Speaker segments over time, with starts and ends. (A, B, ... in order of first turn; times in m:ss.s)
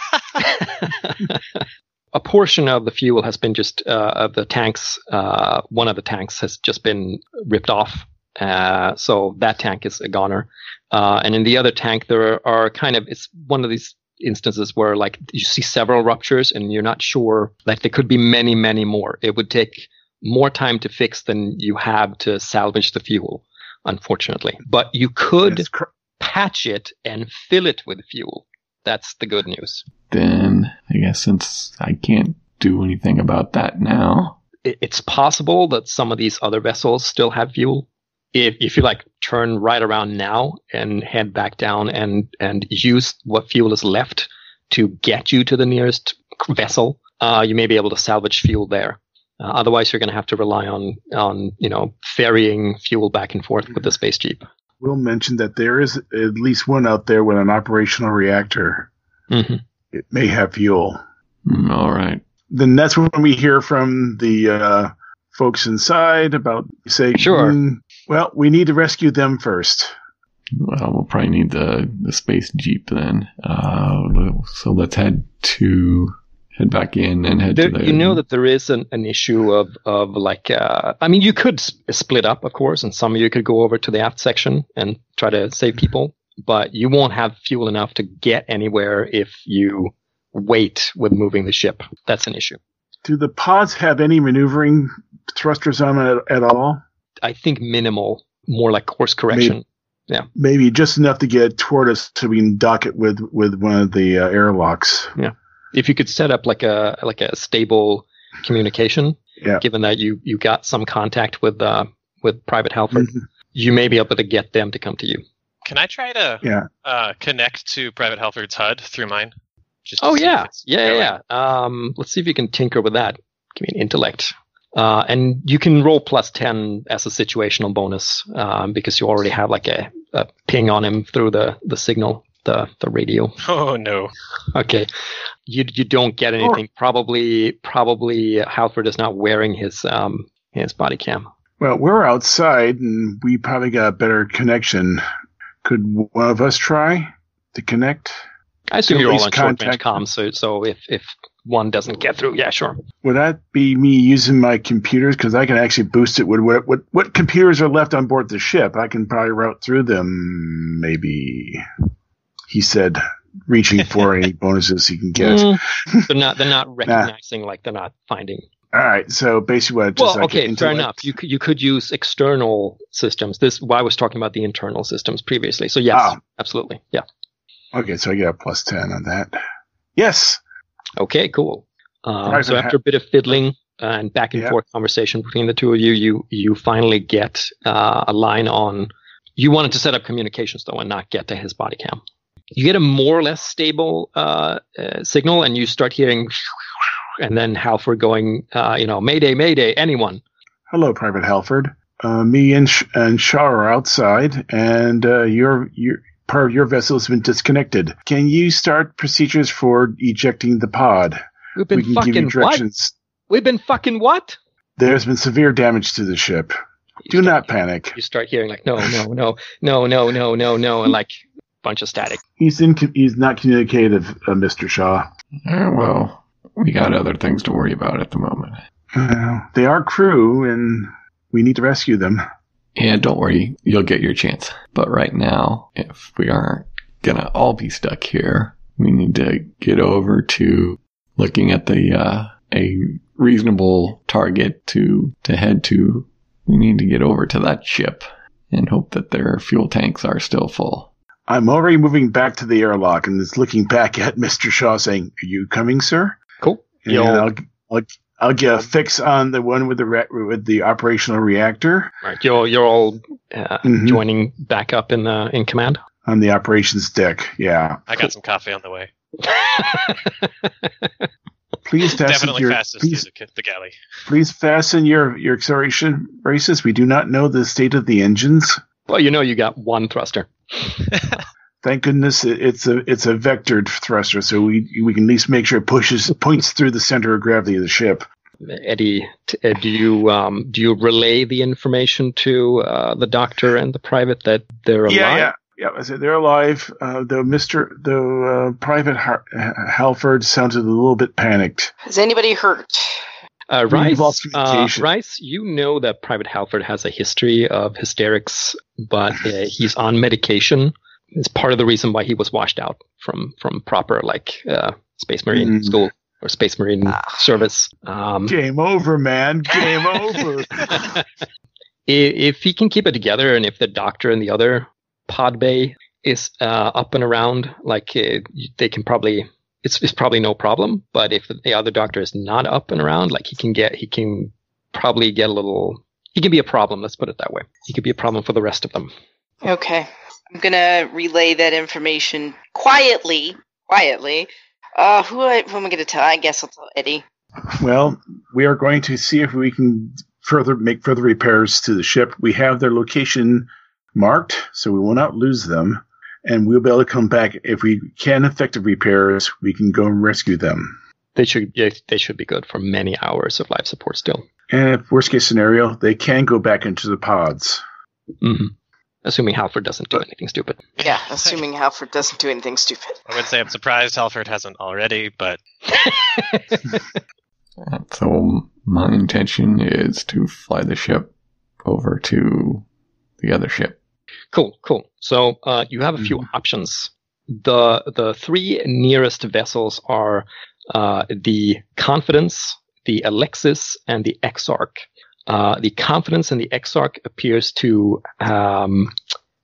0:00.4-0:29.8 A
0:25.4-0:25.9 B
0:30.1-0:34.4 C
0:34.6-0:54.4 A
0:54.8-0:58.9 B
0:59.3-0:59.6 A
0:59.9-1:01.0 B
1:01.4-1:02.2 C
1:02.5-1:09.9 B
1:07.1-1:07.6 A
1:10.5-1:18.2 C
1:17.5-1:32.6 A
1:33.0-1:36.8 B
1:37.2-1:40.3 A
1:39.3-1:39.6 B
1:40.3-1:45.1 B
1:45.2-1:55.2 A
1:52.9-1:53.2 B
1:55.6-1:59.3 D
1:56.4-1:56.7 B
1:59.8-2:01.1 D
2:00.0-2:13.3 A
2:13.4-2:14.1 D
2:14.5-2:14.9 A
2:15.4-2:21.3 A
2:21.6-2:25.0 B
2:25.6-2:28.2 B
2:28.7-2:32.8 A
2:28.9-2:30.0 B
2:33.0-2:41.6 B
2:42.5-2:46.1 B
2:45.2-2:48.4 A
2:48.7-2:51.1 B
2:50.0-2:57.0 A
2:55.9-2:56.2 B
2:57.7-2:59.4 B
3:00.0-3:00.4 B
3:01.0-3:12.0 A
3:02.2-3:02.7 B
3:12.5-3:16.4 A
3:17.2-3:20.2 A
3:20.7-3:32.9 B
3:31.6-3:32.6 A
3:33.3-3:34.4 A
3:34.8-3:36.5 B
3:37.0-3:42.2 A
3:37.1-3:38.0 B
3:42.4-3:45.1 B
3:45.4-3:48.6 C
3:48.9-3:52.2 B
3:52.8-4:10.9 C
4:11.3-4:16.2 B
4:16.4-4:17.3 A
4:16.8-4:21.9 B
4:22.0-4:25.8 A
4:23.6-4:24.0 B
4:26.0-4:27.8 B
4:27.9-4:28.9 D
4:29.2-4:31.1 A
4:31.6-4:33.0 B
4:32.0-4:33.8 D
4:34.1-4:38.6 B
4:38.9-4:40.9 A
4:41.6-4:48.0 B
4:48.4-4:55.3 A
4:54.9-5:01.7 B
5:01.8-5:03.0 E
5:03.5-5:18.3 A
5:03.7-5:04.8 B
5:15.3-5:15.7 B
5:18.3-5:20.9 B
5:20.6-5:21.1 A
5:21.9-5:38.9 A
5:39.4-5:47.0 E
5:47.6-6:00.8 B
6:01.2-6:04.2 A
6:04.5-6:07.6 B
6:08.2-6:10.6 A
6:10.8-6:11.4 D
6:10.8-6:13.0 E
6:13.1-6:15.4 D
6:15.7-6:16.8 A
6:17.6-6:21.1 C
6:21.6-6:22.6 C
6:23.2-6:23.8 C
6:24.3-6:38.9 A